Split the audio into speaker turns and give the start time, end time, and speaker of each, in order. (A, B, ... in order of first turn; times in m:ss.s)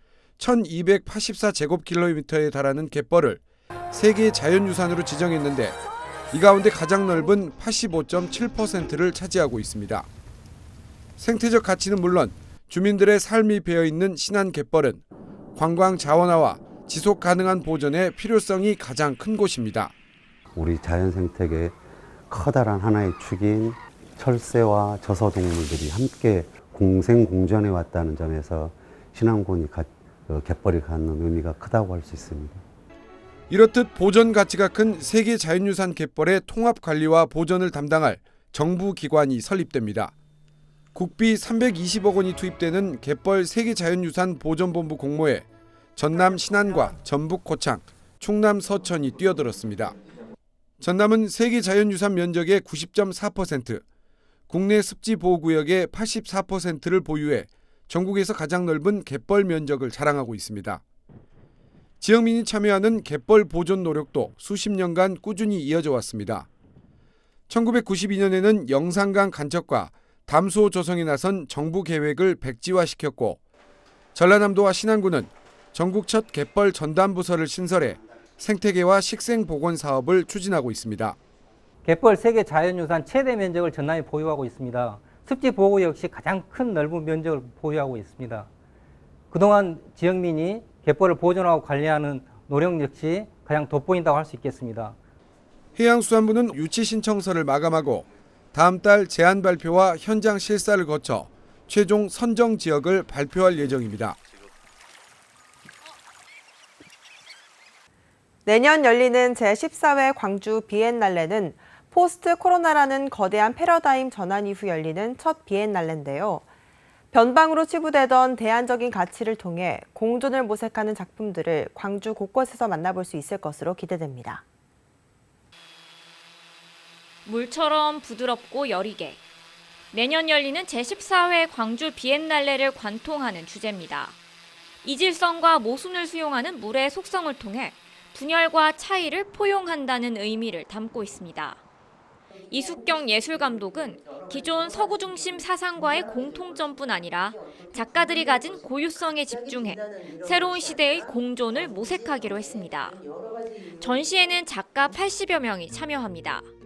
0:00.4-0:05.8 A
0:06.3-0:10.1 A
0:11.2-0:15.0 A
0:15.5-0:19.9 A
0:20.5-0:32.6 B
0:33.5-0:40.1 A
0:40.9-0:49.9 A
0:50.8-0:53.8 A
0:54.5-1:00.8 A
1:02.0-1:06.5 A
1:07.5-1:13.4 A
1:14.1-1:21.2 A
1:21.8-1:28.5 C
1:29.3-1:35.0 C
1:35.8-1:44.2 A
1:48.4-1:56.4 D
1:57.1-2:04.4 D
2:07.2-2:09.2 E
2:09.9-2:14.2 E
2:14.8-2:21.6 E
2:22.5-2:33.0 E
2:33.8-2:36.5 E